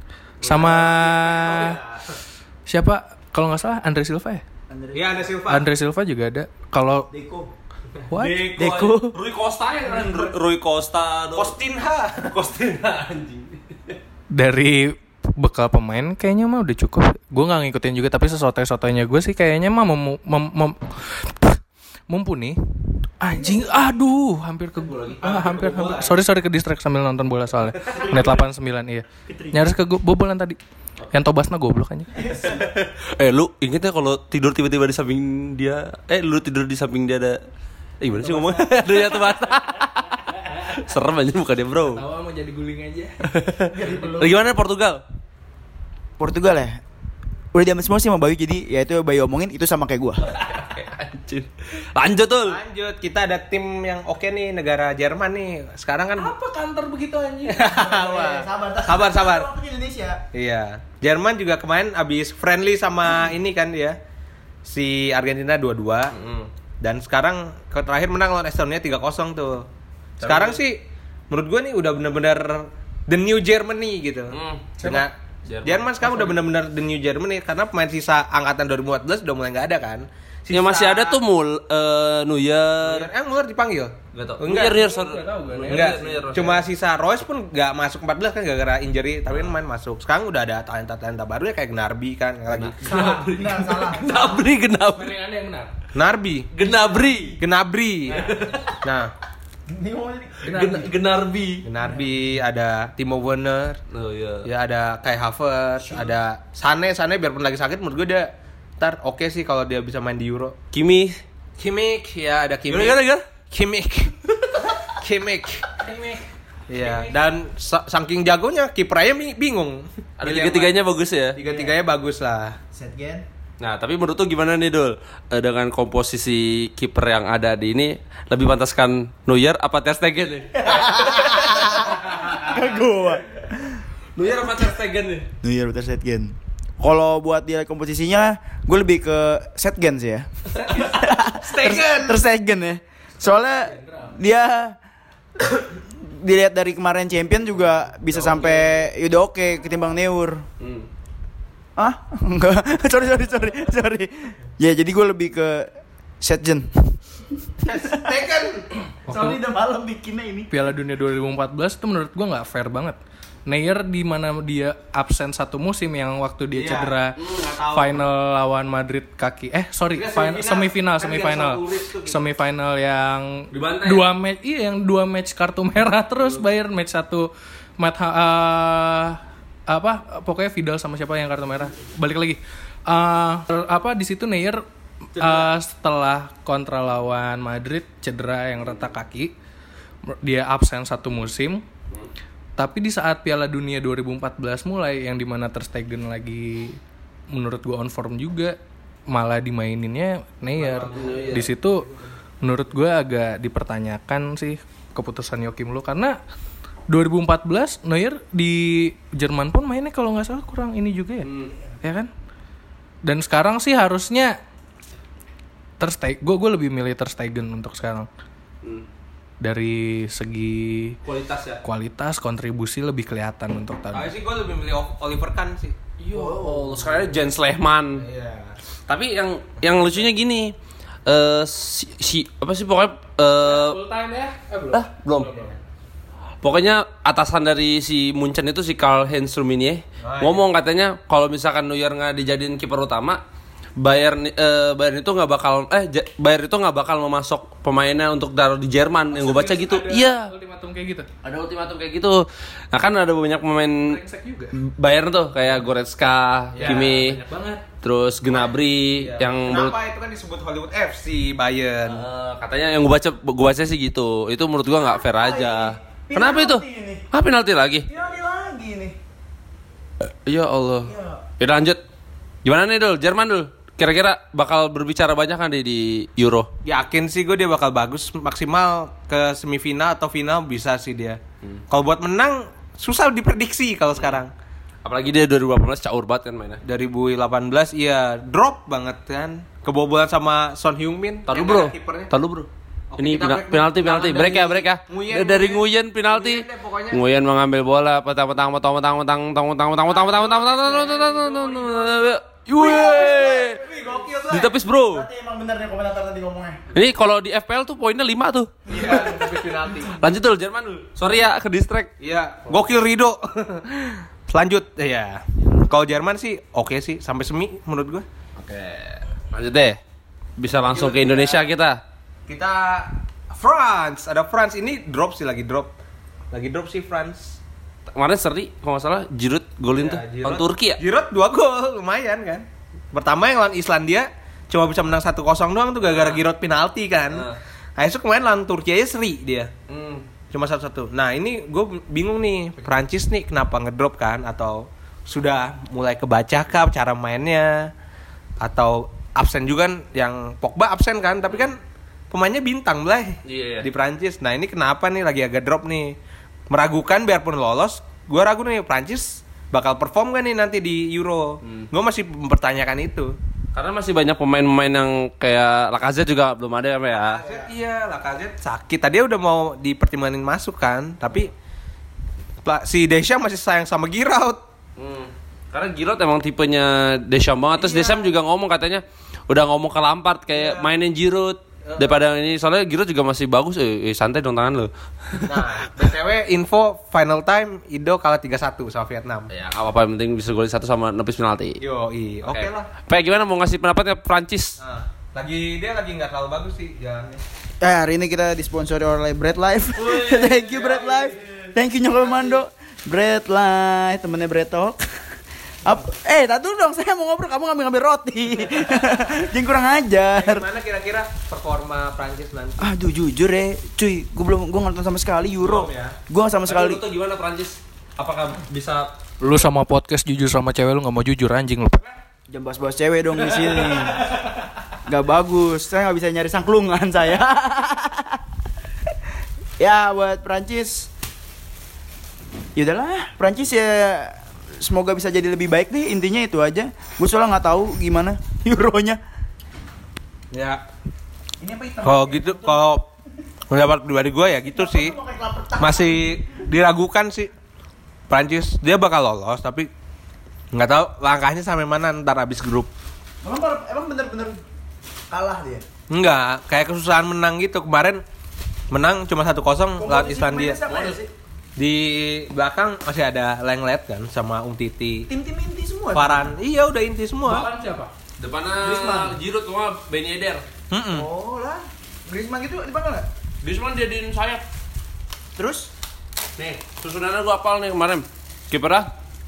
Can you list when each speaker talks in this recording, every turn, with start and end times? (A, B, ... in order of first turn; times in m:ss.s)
0:00.4-0:01.8 A
0:00.4-0:02.0 B
0:02.7-0:04.4 A
0:04.7-0:05.4 C
0:04.9-0:05.7 B
0:05.5-0:07.1 A
0:07.1-0:07.5 C
0:08.1-0:08.5 A
0:08.2-0:11.5 D
0:08.4-0:09.2 C
0:11.3-0:12.3 B
0:12.2-0:14.0 D
0:14.3-0:22.6 A
0:23.2-0:30.6 A
0:23.4-0:23.7 C
0:24.8-0:26.2 B
0:31.1-0:32.3 A
0:32.2-0:32.7 C
0:32.4-0:37.4 D
0:38.0-0:40.1 D
0:38.1-0:38.8 C
0:40.1-0:40.8 A
0:40.6-0:42.0 D
0:41.9-0:43.2 A
0:43.3-0:45.0 D
0:43.7-0:44.4 C
0:43.8-0:44.1 A
0:46.2-0:46.8 C
0:47.5-0:50.2 C
0:50.2-0:52.6 D
0:52.4-0:56.3 B
0:56.2-0:57.7 A
0:57.5-0:59.5 B
0:57.6-1:00.2 C
1:00.3-1:04.0 B
1:04.6-1:06.1 B
1:06.1-1:06.5 D
1:06.8-1:09.7 B
1:10.2-1:10.6 D
1:10.2-1:21.2 B
1:14.3-1:14.8 D
1:14.8-1:15.1 A
1:15.4-1:16.3 D
1:20.5-1:23.1 D
1:22.8-1:24.8 B
1:24.1-1:26.7 D
1:24.7-1:26.3 A
1:25.7-1:33.0 B
1:32.5-1:35.1 D
1:32.8-1:34.5 C
1:34.9-1:35.7 A
1:35.9-1:36.5 B
1:36.5-1:37.4 D
1:37.4-1:38.3 B
1:38.1-1:38.8 D
1:38.2-1:38.5 A
1:38.8-1:39.1 B
1:39.7-1:40.6 C
1:40.4-1:40.9 A
1:40.4-1:41.7 D
1:41.6-1:43.8 B
1:43.9-1:44.5 D
1:44.4-1:50.6 B
1:50.7-1:51.2 D
1:51.6-1:55.7 B
1:52.7-1:53.2 D
1:55.8-1:56.2 A
1:56.7-2:00.7 B
1:56.8-1:57.1 A
2:00.2-2:01.4 D
2:01.3-2:02.6 B
2:02.7-2:03.2 C
2:03.6-2:12.5 D
2:10.6-2:13.8 C
2:14.1-2:15.3 D
2:15.4-2:24.8 C
2:20.7-2:21.0 A
2:20.8-2:22.2 B
2:23.2-2:24.1 A
2:25.4-2:30.4 C
2:28.1-2:28.9 D
2:30.6-2:30.9 D
2:31.8-2:36.9 C
2:37.6-2:38.1 C
2:37.6-2:38.7 B
2:39.1-2:39.4 A
2:39.1-2:40.5 C
2:40.5-3:04.6 A
2:46.5-2:48.0 B
2:49.9-2:52.3 B
2:53.5-2:54.1 D
3:05.1-3:09.3 A
3:10.2-3:11.6 A
3:12.6-3:16.8 A
3:17.3-3:18.6 A
3:19.1-3:21.9 A
3:20.6-3:21.5 B
3:20.8-3:21.5 D
3:22.4-3:26.2 A
3:26.9-3:31.3 A
3:31.2-3:31.5 D
3:31.8-3:32.1 A
3:33.0-3:34.4 A
3:35.8-3:38.1 A
3:39.4-3:41.0 A
3:41.0-3:41.6 D
3:41.6-3:44.1 A
3:43.9-3:45.8 B
3:46.0-3:48.0 D
3:46.2-3:46.5 C
3:48.0-3:48.6 B
3:48.9-3:50.5 D
3:51.0-3:53.8 D
3:53.4-3:55.6 A
3:54.7-3:55.3 D
3:56.4-4:03.2 D
4:00.0-4:00.4 B
4:03.8-4:10.3 D
4:09.1-4:11.1 A
4:11.2-4:13.9 D
4:13.8-4:14.5 A
4:14.6-4:17.2 D
4:16.5-4:17.0 B
4:16.5-4:17.6 A
4:17.8-4:19.8 D
4:18.2-4:22.0 B
4:21.8-4:27.9 D
4:24.8-4:27.0 C
4:27.9-4:29.0 C
4:30.0-4:31.8 D
4:30.8-4:31.2 C
4:32.4-4:36.5 D
4:36.6-4:44.3 B
4:43.9-4:44.2 D
4:44.8-4:46.6 D
4:46.6-4:52.1 B
4:51.3-5:03.6 D
4:52.9-4:57.0 B
4:59.9-5:02.1 B
5:02.6-5:06.6 C
5:02.6-5:04.0 B
5:04.3-5:05.1 D
5:06.7-5:09.2 D
5:08.7-5:10.0 B
5:08.7-5:09.4 C
5:09.8-5:11.9 D
5:12.0-5:18.0 B
5:18.4-5:19.8 D
5:20.4-5:21.8 D
5:20.7-5:21.5 B
5:22.3-5:25.7 B
5:26.3-5:27.4 B
5:27.9-5:30.8 D
5:29.7-5:39.5 B
5:35.9-5:36.2 D
5:37.1-5:37.4 D
5:39.7-5:40.0 D
5:40.3-5:47.7 B
5:48.4-5:51.6 B
5:52.1-5:56.0 B
5:53.2-5:53.7 D
5:56.5-6:03.2 B
6:01.4-6:01.7 D
6:03.5-6:07.2 D
6:07.1-6:11.3 B
6:07.2-6:07.5 C
6:12.4-6:14.4 B
6:14.8-6:25.4 D
6:17.6-6:18.1 B
6:20.3-6:20.7 B
6:21.6-6:22.0 B
6:25.2-6:29.3 B
6:29.3-6:31.6 D
6:31.6-6:32.7 B
6:32.2-6:34.6 D
6:34.6-6:37.2 B
6:37.6-6:50.4 C
6:40.0-6:41.2 B
6:42.0-6:42.4 B
6:50.1-6:52.7 B
6:52.6-6:56.8 C
6:55.4-6:56.0 B
6:56.4-6:58.9 D
6:59.2-7:01.8 A
7:02.3-7:04.1 C
7:04.8-7:08.2 C
7:09.6-7:10.9 C
7:12.5-7:19.0 C
7:20.3-7:20.6 B
7:21.4-7:22.7 C
7:21.8-7:22.8 B
7:23.5-7:24.9 B
7:24.5-7:26.1 C
7:25.6-7:27.3 B
7:28.1-7:29.7 B
7:30.5-7:32.7 B
7:33.2-7:34.4 C
7:35.1-7:35.6 C
7:35.9-7:38.0 B
7:38.7-7:40.6 B
7:39.8-7:41.1 C
7:40.7-7:41.0 D
7:41.6-7:45.1 B
7:45.1-7:46.3 C
7:45.9-7:47.5 B
7:47.2-7:47.9 A
7:48.2-7:50.4 D
7:48.6-7:49.2 C
7:50.7-7:51.1 B
7:50.9-7:53.1 C
7:53.4-7:54.4 D
7:55.4-7:55.7 C
7:56.4-7:58.9 D